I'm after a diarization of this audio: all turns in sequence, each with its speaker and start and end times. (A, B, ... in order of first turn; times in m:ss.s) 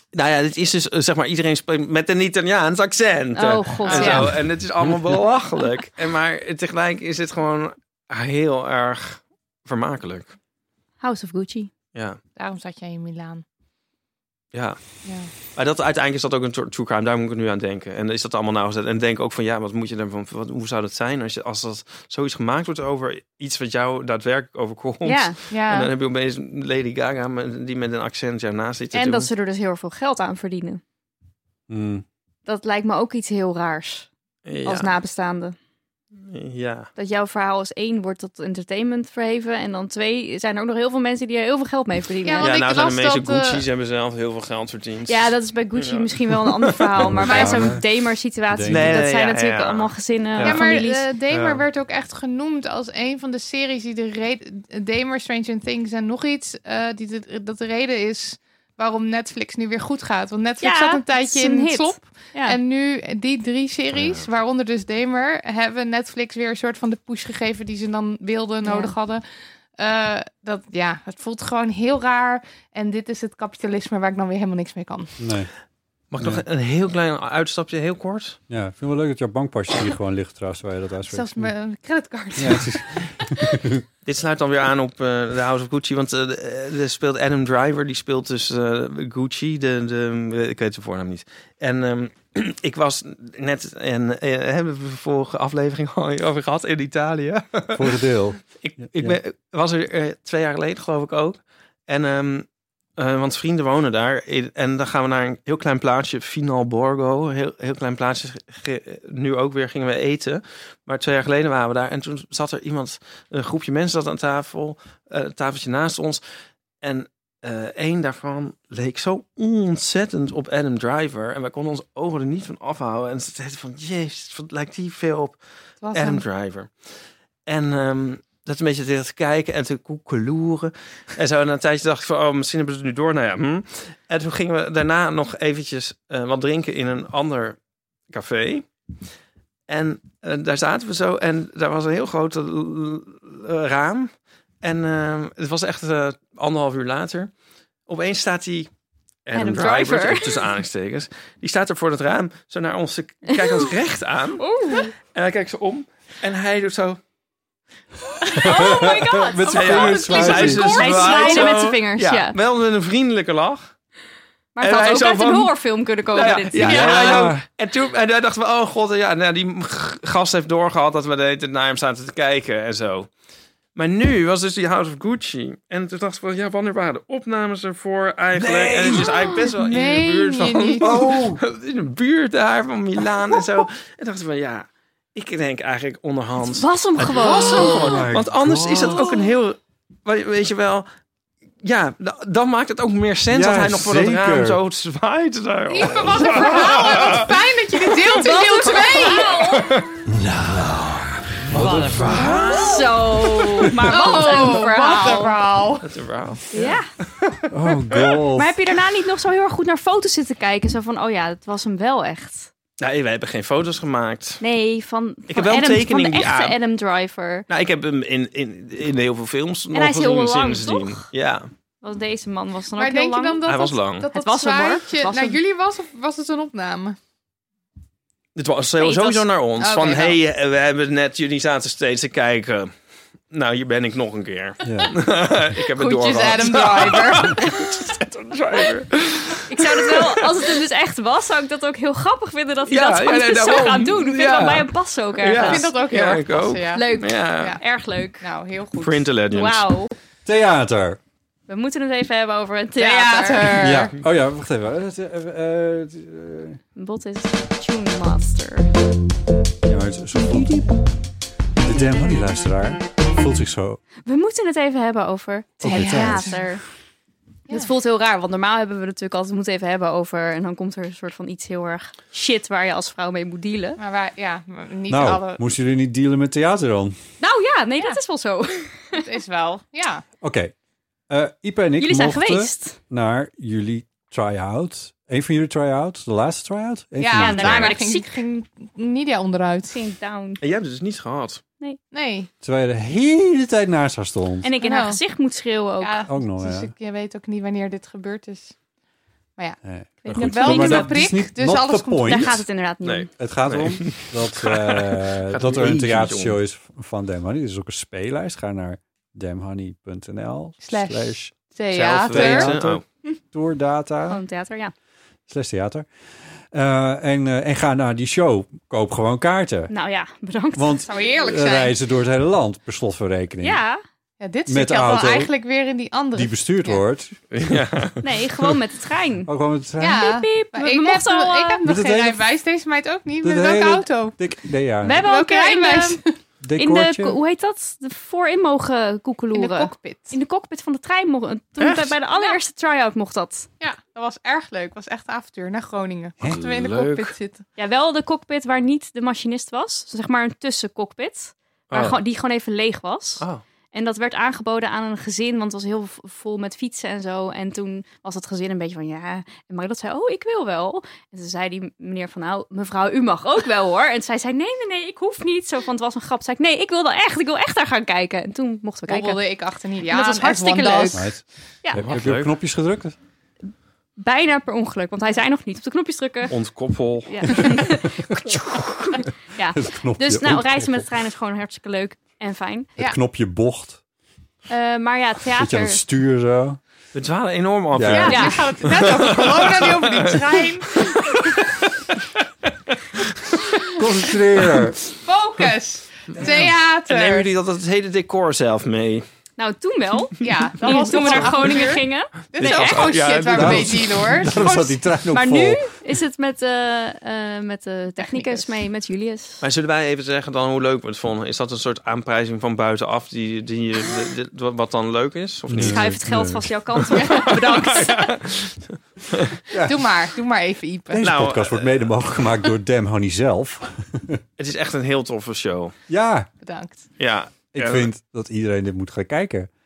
0:00.1-0:10.3 A
0:03.3-0:04.4 B
0:03.8-0:04.3 C
0:11.0-0:11.7 B
0:12.4-0:13.4 C
0:14.5-0:29.3 A
0:15.0-0:15.3 C
0:25.0-0:25.4 B
0:25.5-0:25.9 C
0:28.9-0:30.8 B
0:31.7-0:32.0 D
0:32.4-0:34.1 B
0:34.4-0:34.9 A
0:34.6-0:35.6 B
0:36.2-0:36.9 A
0:37.0-0:42.5 B
0:42.2-0:43.6 C
0:42.4-0:47.4 A
0:45.1-0:51.1 B
0:47.0-0:47.8 D
0:47.2-0:47.7 C
0:48.5-0:49.1 D
0:48.7-0:50.7 A
0:50.4-1:09.2 C
0:51.3-0:51.6 A
1:00.6-1:02.6 B
1:03.9-1:04.2 A
1:08.6-1:08.9 B
1:09.8-1:15.1 C
1:15.2-1:15.5 D
1:16.1-1:18.4 A
1:18.5-1:21.5 D
1:21.1-1:23.3 C
1:22.4-1:23.8 D
1:24.0-1:38.0 A
1:37.7-1:39.2 D
1:38.6-1:42.4 A
1:43.0-1:56.2 A
1:56.8-2:05.4 A
2:05.8-2:06.2 C
2:05.9-2:17.6 A
2:18.1-2:18.7 A
2:19.7-2:27.3 A
2:27.9-2:28.7 A
2:29.2-2:34.4 A
2:29.3-2:30.5 B
2:34.4-2:34.9 B
2:35.1-2:37.0 A
2:38.2-2:42.4 B
2:38.4-2:41.4 D
2:39.5-2:43.7 A
2:41.0-2:41.5 C
2:44.5-2:47.2 B
2:44.6-2:45.5 A
2:46.1-2:53.1 A
2:46.5-2:47.4 D
2:53.7-3:10.9 A
2:58.3-2:59.1 D
2:59.6-3:00.9 C
3:00.8-3:01.4 D
3:06.4-3:08.0 B
3:07.1-3:09.1 D
3:11.6-3:17.3 A
3:13.3-3:14.6 D
3:15.7-3:19.3 C
3:16.4-3:17.0 B
3:18.1-3:19.8 B
3:19.0-3:19.9 A
3:20.2-3:22.4 D
3:21.5-3:23.7 A
3:21.6-3:25.3 B
3:23.9-3:25.9 C
3:25.8-3:28.1 A
3:26.5-3:26.9 B
3:27.5-3:28.5 D
3:28.3-3:32.5 B
3:32.8-3:34.4 A
3:34.4-3:37.4 B
3:35.3-3:36.6 A
3:37.5-3:41.5 A
3:39.7-3:41.0 B
3:41.8-3:43.5 B
3:42.8-3:47.0 C
3:43.4-3:44.1 A
3:44.1-3:45.4 B
3:48.4-3:52.7 A
3:48.8-3:49.2 B
3:49.6-3:50.2 C
3:53.3-4:00.5 A
3:54.6-3:55.0 D
3:55.8-3:57.4 C
3:59.5-4:05.7 B
4:02.6-4:07.6 A
4:05.4-4:07.6 C
4:06.7-4:08.2 B
4:08.2-4:09.0 C
4:08.8-4:09.6 A
4:09.3-4:09.9 B
4:10.2-4:11.0 D
4:11.5-4:13.8 B
4:12.8-4:13.9 C
4:13.6-4:16.6 D
4:16.8-4:18.7 B
4:19.6-4:20.8 D
4:21.6-4:23.8 D
4:24.0-4:26.6 B
4:25.6-4:26.5 D
4:25.6-4:26.4 C
4:27.5-4:33.8 B
4:33.8-4:35.4 C
4:34.9-4:37.0 D
4:37.2-4:39.0 B
4:38.9-4:40.0 C
4:40.2-4:40.5 D
4:41.1-4:47.7 D
4:41.8-4:42.8 B
4:47.0-4:49.8 C
4:47.2-4:48.1 B
4:49.7-4:50.4 B
4:50.4-4:51.4 A
4:51.9-4:52.3 C
4:52.4-4:54.5 D
4:54.4-4:56.0 B
4:54.6-4:55.0 C
4:55.8-4:58.5 C
4:56.1-4:56.7 D
4:59.4-5:02.3 C
4:59.6-5:02.4 D
5:00.0-5:01.0 B
5:02.0-5:03.1 B
5:02.8-5:06.4 A
5:03.2-5:11.3 D
5:10.6-5:12.5 C
5:11.7-5:12.8 A
5:12.0-5:14.2 D
5:14.1-5:14.7 B
5:15.3-5:15.9 D
5:16.5-5:19.7 D
5:19.7-5:20.8 B
5:20.5-5:23.6 D
5:20.8-5:21.7 C
5:23.4-5:23.8 B
5:24.2-5:26.8 C
5:24.5-5:25.3 D
5:26.1-5:27.4 D
5:27.3-5:28.5 A
5:28.0-5:29.3 B
5:29.2-5:30.1 D
5:29.8-5:34.2 C
5:30.0-5:31.6 B
5:31.6-5:32.3 D
5:33.2-5:35.0 D
5:34.8-5:36.0 B
5:34.8-5:36.1 C
5:36.4-5:37.2 D
5:36.6-5:43.5 B
5:39.3-5:40.2 C
5:42.1-5:42.4 C
5:43.6-5:47.4 C
5:46.3-5:47.1 A
5:47.6-6:09.2 B
5:51.7-5:52.0 A
6:08.9-6:11.0 C
6:09.9-6:11.1 B
6:10.9-6:13.0 D
6:11.8-6:12.3 A
6:14.0-6:16.3 B
6:16.3-6:17.6 A
6:17.1-6:22.7 B
6:19.5-6:20.9 D
6:22.8-6:23.8 D
6:24.5-6:25.8 B
6:25.4-6:26.6 D
6:26.9-6:30.2 A
6:27.7-6:28.5 D
6:27.9-6:31.0 C
6:28.0-6:28.4 B
6:33.7-6:34.8 D
6:34.9-6:37.3 C
6:36.2-6:39.0 A
6:39.4-6:42.9 B
6:40.2-6:44.8 C
6:40.9-6:41.3 A
6:42.4-6:43.9 A
6:43.3-6:45.7 D
6:45.1-6:49.4 B
6:48.0-6:48.4 C
6:49.4-6:55.9 A
6:55.5-6:56.7 D
6:55.6-6:58.1 B
6:56.9-6:57.9 C
6:57.1-6:59.3 A
6:59.5-6:59.9 D
6:59.6-7:01.0 C
7:00.9-7:04.2 D
7:01.0-7:02.1 A
7:04.4-7:05.7 A
7:05.9-7:06.3 D
7:06.4-7:06.8 C
7:07.0-7:07.9 A
7:07.5-7:09.5 D